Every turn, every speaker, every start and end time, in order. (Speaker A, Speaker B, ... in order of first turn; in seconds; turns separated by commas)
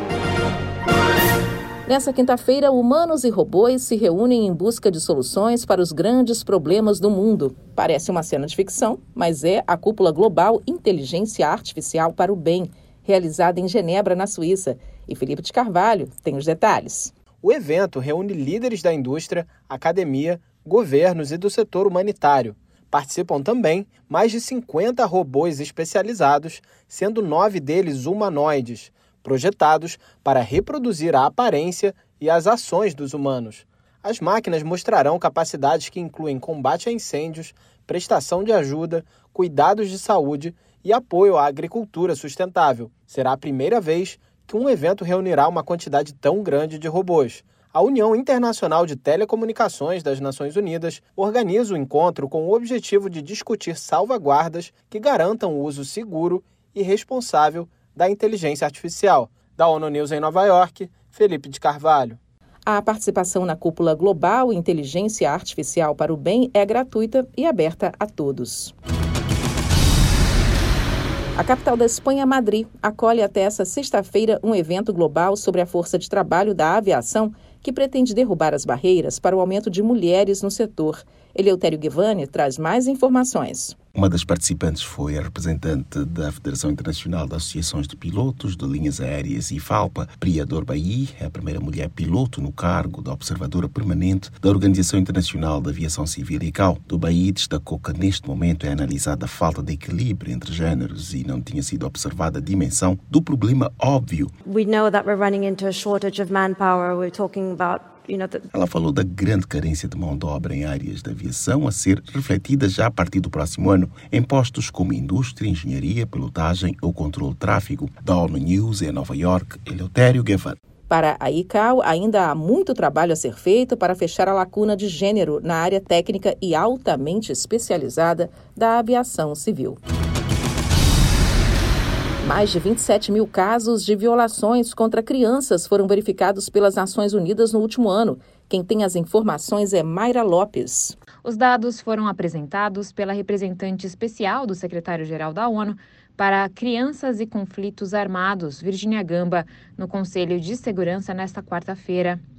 Speaker A: 1.9-17.1, Speaker B: 17.4-62.2, Speaker A: 62.7-68.7, Speaker A: 71.4-83.8, Speaker C: 83.9-104.3, Speaker D: 104.4-108.4, Speaker C: 108.5-120.6, Speaker A: 120.9-129.8, Speaker A: 132.2-141.0, Speaker E: 141.2-152.2